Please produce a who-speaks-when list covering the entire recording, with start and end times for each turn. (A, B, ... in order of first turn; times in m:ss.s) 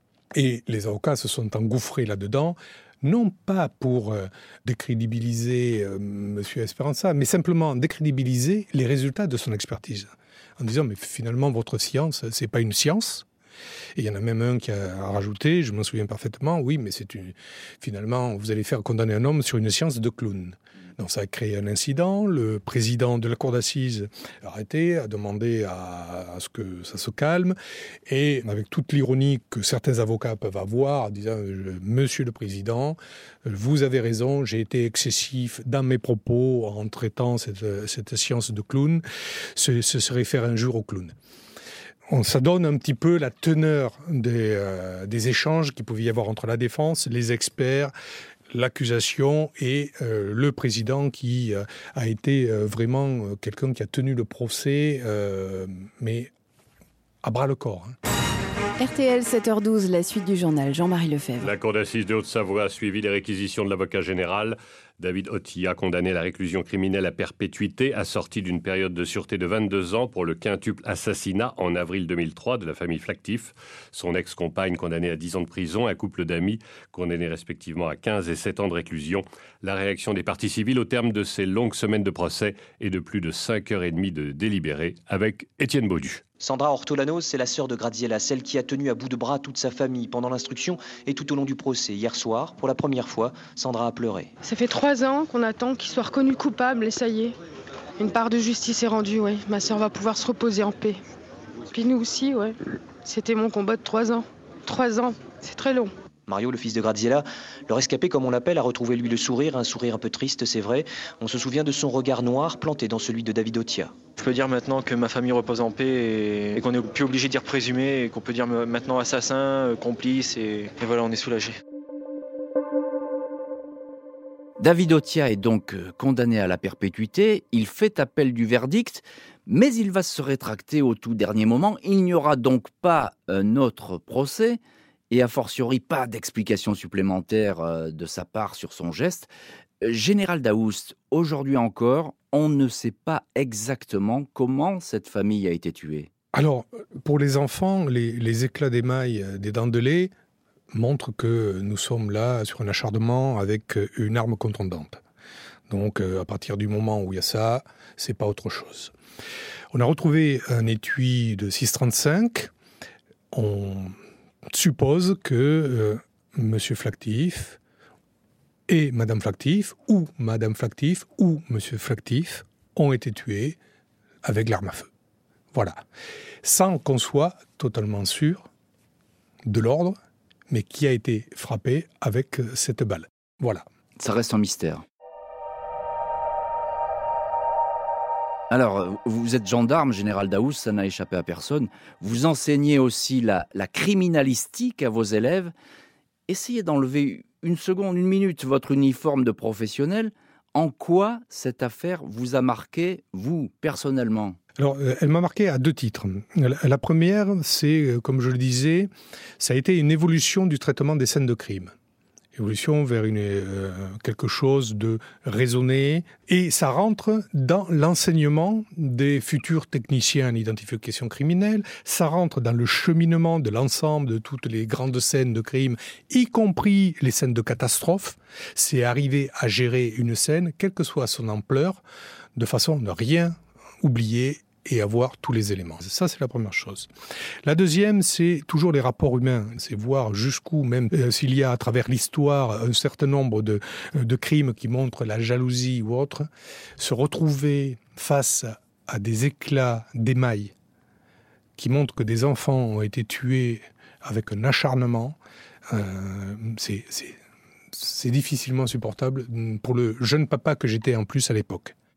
0:00.3-0:13.2 A
0:14.0-0:39.0 A
0:39.5-0:41.1 A
0:42.1-0:47.9 A
0:48.5-0:56.3 A
0:57.2-0:58.0 A
0:58.8-1:01.5 B
1:01.4-1:26.2 C
1:26.4-1:34.3 D
1:34.4-1:37.3 E
1:38.0-1:41.0 E
1:41.7-1:45.9 E
1:46.3-1:53.9 D
1:54.2-2:01.6 F
2:04.6-2:14.6 G
2:15.1-2:19.3 G
2:19.8-2:26.1 G
2:26.3-2:30.1 A
2:30.7-2:35.0 A
2:35.7-2:38.9 A
2:39.7-2:42.5 A
2:43.3-2:44.0 A
2:44.5-2:47.6 A
2:48.7-2:53.6 A
2:54.2-2:54.9 A
2:55.5-2:55.8 A
2:56.4-2:58.4 A
2:59.4-3:00.0 A
3:00.5-3:03.6 A
3:04.0-3:04.8 G
3:08.5-3:15.5 G
3:16.3-3:24.4 G
3:24.6-3:31.7 A
3:32.3-3:51.8 A
3:52.3-3:56.9 A
3:57.4-4:10.5 A
4:11.6-4:17.2 A
4:17.7-4:21.7 A